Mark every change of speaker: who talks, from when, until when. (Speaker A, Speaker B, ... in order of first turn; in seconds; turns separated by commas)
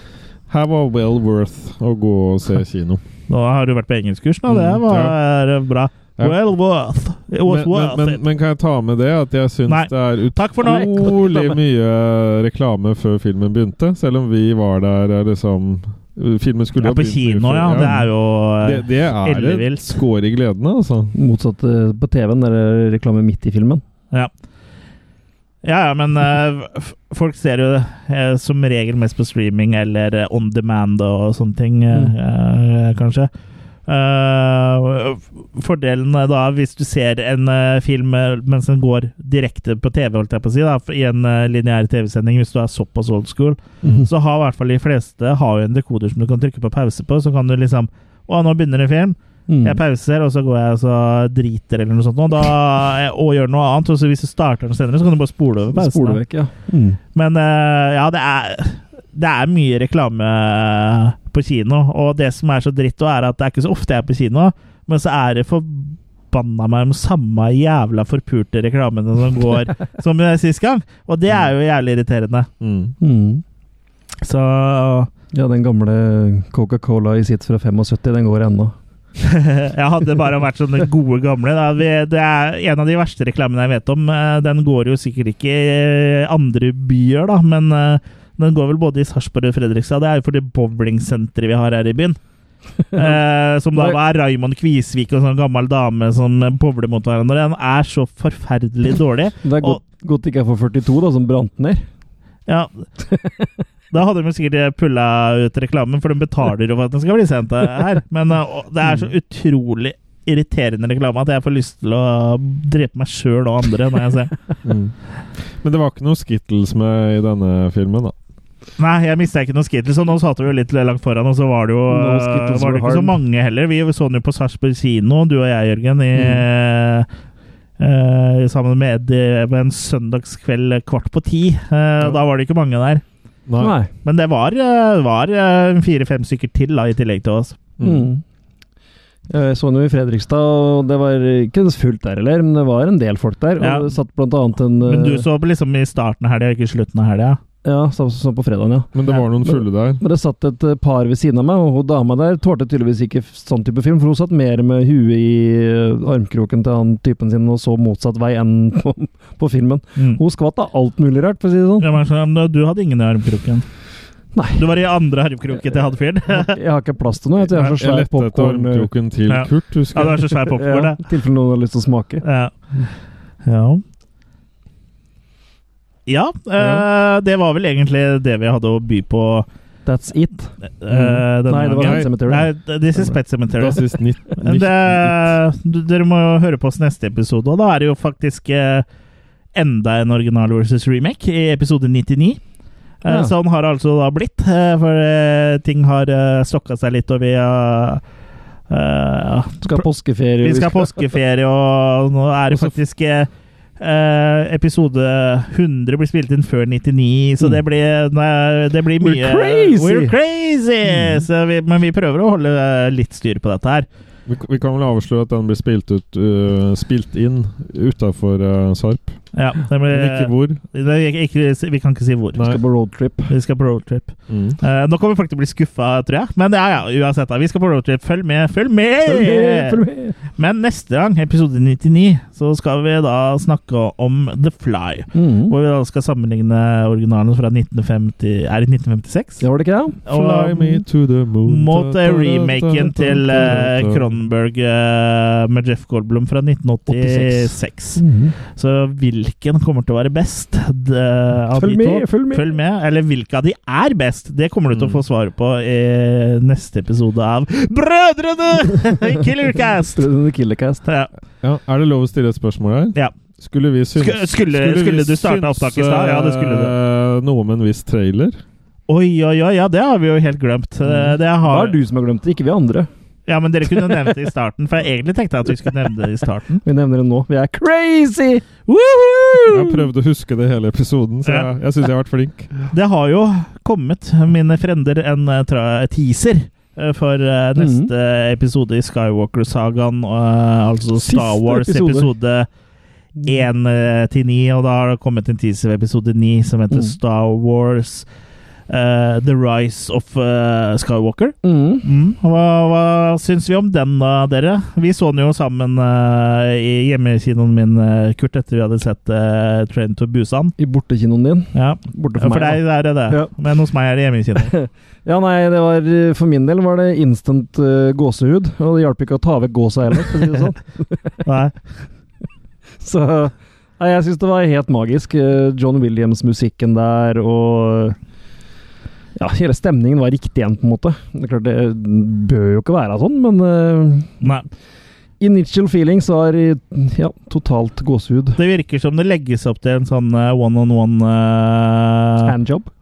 Speaker A: 0.5-3.0, Speaker B: 3.3-8.2, Speaker A: 4.5-5.2, Speaker A: 7.5-21.1, Speaker B: 9.7-11.2, Speaker C: 10.6-11.6, Speaker B: 16.8-20.0, Speaker C: 21.1-23.8, Speaker B: 25.6-33.3, Speaker B: 33.9-56.2, Speaker C: 43.8-44.1, Speaker C: 49.5-49.8, Speaker C: 55.7-57.0, Speaker B: 57.1-72.5, Speaker A: 72.6-73.0, Speaker C: 73.0-73.4, Speaker B: 74.2-75.1, Speaker C: 75.3-78.8, Speaker B: 79.2-92.2, Speaker C: 92.9-93.2, Speaker B: 92.9-99.8, Speaker C: 99.4-101.8, Speaker B: 102.5-102.9, Speaker C: 103.1-103.6, Speaker B: 103.9-114.3, Speaker A: 114.7-114.9, Speaker A: 115.5-118.1, Speaker B: 118.8-127.1, Speaker C: 121.9-123.2, Speaker B: 127.8-133.0, Speaker A: 133.5-133.7, Speaker C: 133.6-133.9, Speaker B: 134.1-137.6, Speaker A: 137.8-138.1, Speaker C: 137.8-138.2, Speaker C: 139.3-145.3, Speaker B: 143.6-143.9, Speaker B: 144.8-147.4, Speaker C: 147.6-161.9, Speaker A: 148.9-150.0, Speaker B: 161.8-163.7, Speaker C: 164.3-164.7, Speaker B: 164.6-166.6, Speaker C: 166.3-168.9, Speaker A: 167.7-170.4, Speaker B: 169.3-171.0, Speaker C: 170.4-172.2, Speaker B: 172.2-172.6, Speaker B: 173.4-173.8, Speaker B: 176.1-179.5, Speaker A: 176.6-176.9, Speaker C: 179.9-180.5, Speaker B: 180.8-183.8, Speaker A: 180.9-181.2, Speaker C: 181.4-183.2, Speaker A: 181.8-182.1, Speaker A: 183.6-185.4, Speaker B: 184.4-188.9, Speaker B: 189.5-192.4, Speaker B: 193.0-198.0, Speaker C: 193.1-193.3, Speaker B: 198.7-199.8, Speaker C: 199.6-201.1, Speaker B: 200.4-213.9, Speaker C: 209.0-210.2, Speaker A: 214.3-219.2, Speaker B: 219.3-222.4, Speaker A: 219.9-220.6, Speaker C: 222.4-223.3, Speaker B: 223.3-229.8, Speaker A: 224.3-224.6, Speaker C: 229.1-230.2, Speaker B: 230.4-239.4, Speaker C: 235.1-235.6, Speaker C: 239.4-240.0, Speaker B: 240.1-240.8, Speaker A: 240.1-244.1, Speaker B: 241.4-260.0, Speaker C: 246.9-248.3, Speaker C: 251.6-252.5, Speaker A: 254.7-255.0, Speaker C: 260.0-260.9, Speaker B: 260.9-261.1, Speaker A: 261.4-268.4, Speaker B: 264.0-266.7, Speaker B: 268.9-271.8, Speaker C: 271.4-272.9, Speaker B: 273.3-276.6, Speaker C: 276.6-278.6, Speaker B: 278.7-279.5, Speaker A: 279.5-282.6, Speaker B: 282.7-292.5, Speaker C: 287.6-287.9, Speaker C: 291.0-292.1, Speaker B: 293.2-298.1, Speaker C: 296.7-297.0, Speaker B: 298.7-310.5, Speaker C: 301.4-301.9, Speaker C: 310.6-313.3, Speaker B: 311.5-314.5, Speaker C: 314.4-321.2, Speaker B: 321.2-321.6, Speaker C: 322.8-328.0, Speaker C: 329.2-334.1, Speaker B: 334.2-334.5, Speaker C: 335.2-338.4, Speaker B: 338.4-342.3, Speaker C: 342.2-342.7